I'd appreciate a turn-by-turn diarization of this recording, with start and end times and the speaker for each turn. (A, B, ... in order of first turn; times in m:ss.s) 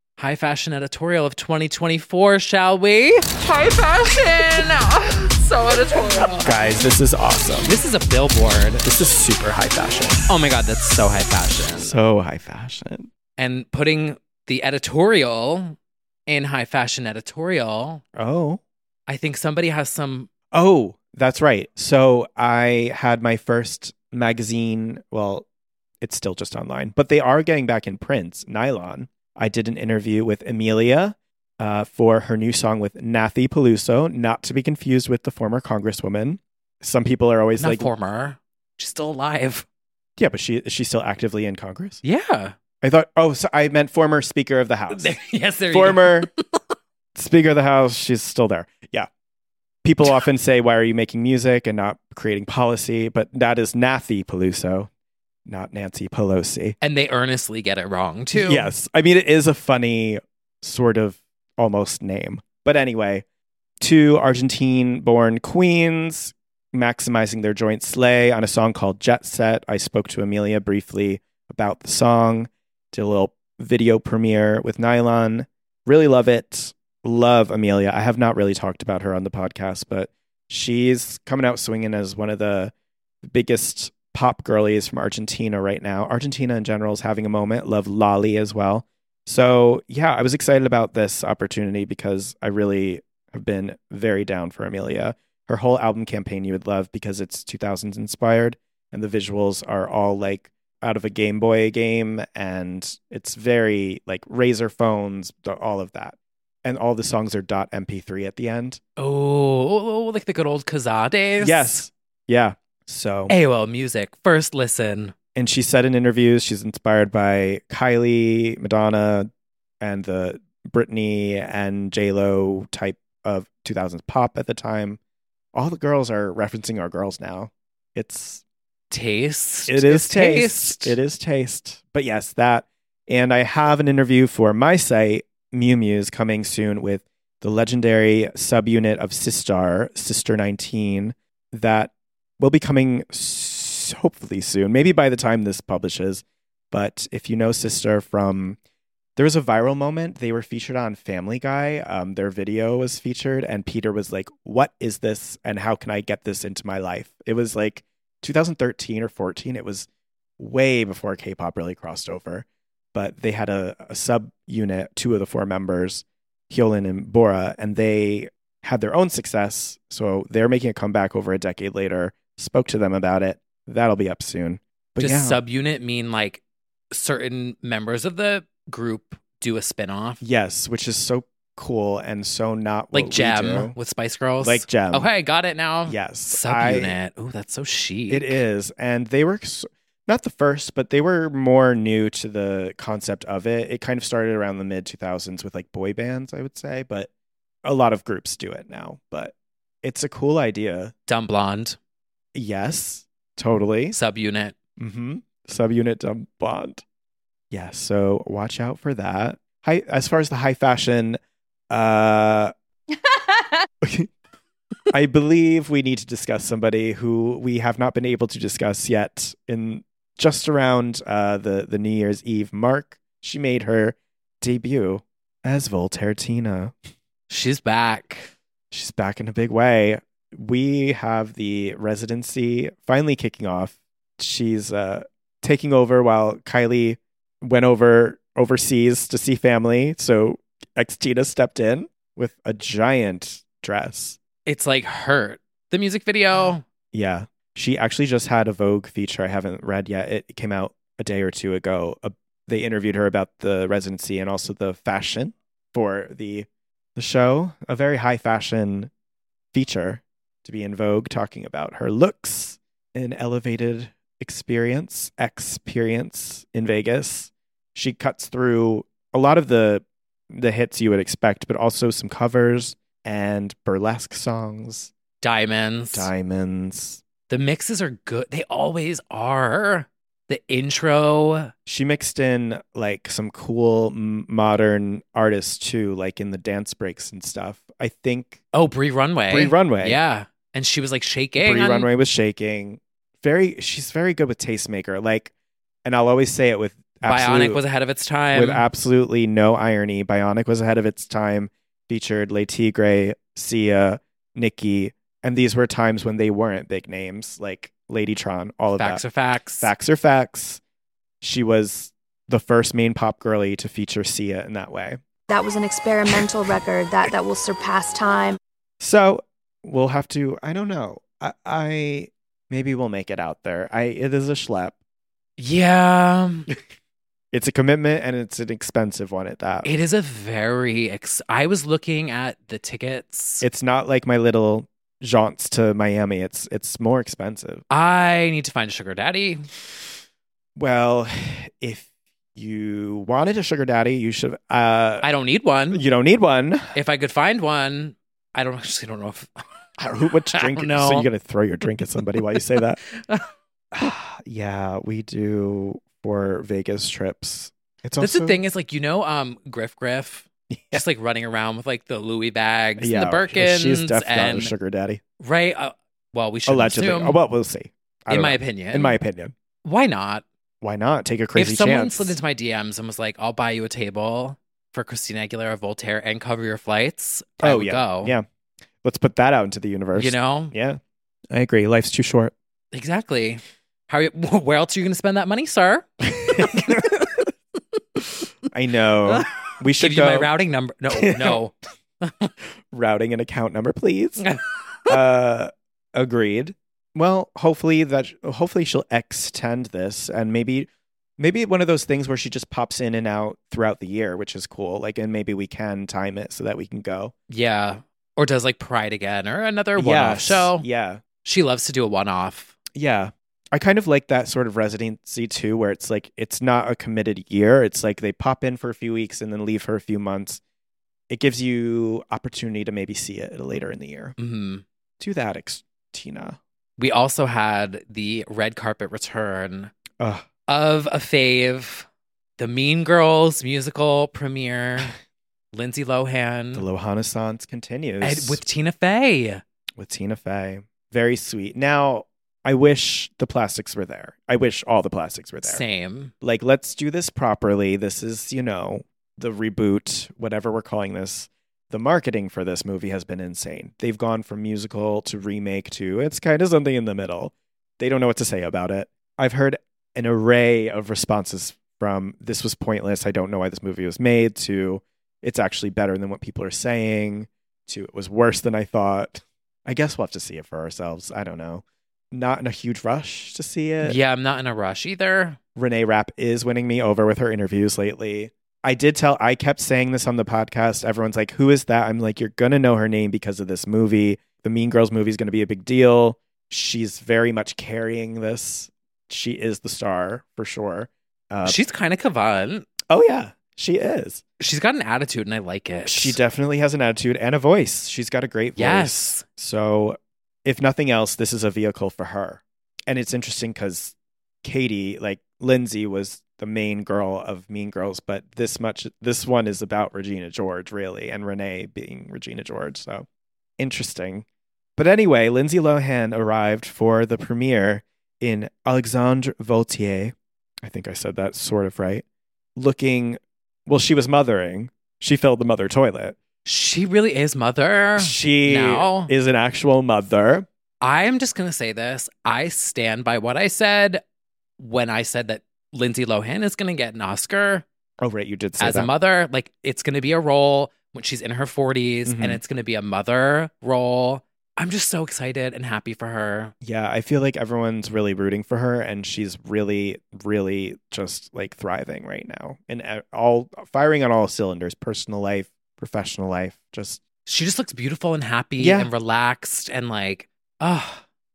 0:00.2-0:06.5 A
0:06.2-0:07.8 B
0:07.6-0:08.9 A
0:08.8-0:10.2 B
0:10.3-0:12.0 A
0:11.8-0:13.1 B
0:13.4-0:18.0 A
0:18.2-0:18.6 B
0:19.1-0:20.3 A
0:20.5-0:25.5 B
0:26.0-0:37.9 B
0:37.6-0:39.7 A
0:40.2-0:42.0 B
0:42.0-0:42.6 A
0:42.8-0:45.2 B
0:44.9-0:46.3 A
0:45.7-0:46.3 B
0:47.2-0:49.1 B
0:49.8-0:54.9 B
0:55.5-0:56.8 B
0:56.8-0:58.7 A
0:58.3-1:03.2 B
1:03.8-1:48.8 B
1:49.0-1:51.8 A
1:51.4-1:53.3 B
1:53.3-1:55.1 A
1:55.4-1:59.3 B
1:59.8-2:05.0 B
2:05.5-2:08.4 B
2:08.9-2:11.0 A
2:09.7-2:28.6 B
2:29.2-2:39.9 B
2:40.4-2:55.4 B
2:55.0-3:00.2 A
3:00.2-3:03.8 B
3:02.9-3:08.4 A
3:04.4-3:05.1 B
3:05.8-3:07.0 B
3:08.1-3:17.1 B
3:17.6-3:20.9 B
3:21.1-3:21.8 A
3:22.3-3:24.0 B
3:23.9-3:24.6 A
3:24.8-3:26.8 B
3:27.5-3:31.2 B
3:31.7-3:32.5 B
3:33.8-3:34.1 B
3:34.9-3:46.8 B
3:47.3-3:48.3 A
3:48.7-4:04.2 B
4:04.5-4:06.6 A
4:06.4-4:18.9 B
4:19.5-4:34.9 B
4:35.2-4:36.1 A
4:35.9-4:37.0 B
4:37.3-4:41.5 A
4:41.7-4:48.4 B
4:48.5-4:51.9 A
4:49.3-4:50.0 B
4:51.4-4:55.3 B
4:55.8-4:57.6 B
4:57.0-4:58.7 A
4:58.3-5:09.0 B
5:08.8-5:09.7 A
5:09.6-5:10.6 B
5:11.2-5:15.0 B
5:15.3-5:18.4 C
5:18.8-5:24.8 B
5:25.4-5:26.5 A
5:27.3-5:29.7 B
5:29.6-5:33.4 A
5:33.4-5:37.6 B
5:37.7-5:39.5 A
5:40.6-5:45.1 B
5:45.0-5:45.8 A
5:45.7-5:46.7 B
5:46.8-5:49.3 A
5:49.8-5:52.8 B
5:50.3-5:51.1 A
5:52.9-5:53.3 A
5:53.7-5:58.4 B
5:58.0-6:04.5 A
6:00.5-6:00.8 B
6:02.8-6:05.0 B
6:05.2-6:07.2 A
6:06.5-6:09.3 B
6:08.1-6:09.0 A
6:09.6-6:10.2 A
6:10.6-6:12.2 B
6:11.4-6:18.2 A
6:17.4-6:18.3 B
6:18.8-6:20.8 B
6:20.0-6:20.5 A
6:21.3-6:22.3 B
6:22.7-6:27.0 A
6:26.2-6:27.1 B
6:28.5-6:30.3 B
6:29.1-6:32.3 A
6:30.9-6:31.4 B
6:32.7-6:34.2 B
6:34.2-6:35.0 A
6:34.9-6:47.1 B
6:47.3-6:50.7 A
6:49.8-6:51.0 B
6:51.2-6:52.6 A
6:52.7-7:00.4 B
7:01.1-7:04.2 B
7:04.2-7:04.6 A
7:05.0-7:06.4 B
7:06.8-7:09.7 A
7:10.0-7:10.3 B
7:10.5-7:11.9 A
7:12.4-7:14.9 A
7:15.5-7:16.7 A
7:16.5-7:18.4 B
7:18.0-7:19.4 A
7:19.8-7:25.6 B
7:25.4-7:26.1 A
7:26.2-7:54.0 B
7:53.8-7:55.4 A
7:55.6-8:11.6 B
8:11.4-8:12.7 A
8:12.9-8:14.2 B
8:14.4-8:16.2 A
8:15.9-8:33.1 B
8:18.6-8:19.2 A
8:33.6-8:34.3 B
8:34.8-8:42.0 B
8:42.6-8:46.2 B
8:46.4-8:49.1 A
8:48.0-8:50.5 B
8:50.8-8:54.0 A
8:54.6-8:57.7 A
8:58.0-8:58.9 B
8:58.6-9:06.5 A
9:02.1-9:02.4 B
9:06.6-9:17.0 B
9:17.3-9:21.0 A
9:18.6-9:18.9 B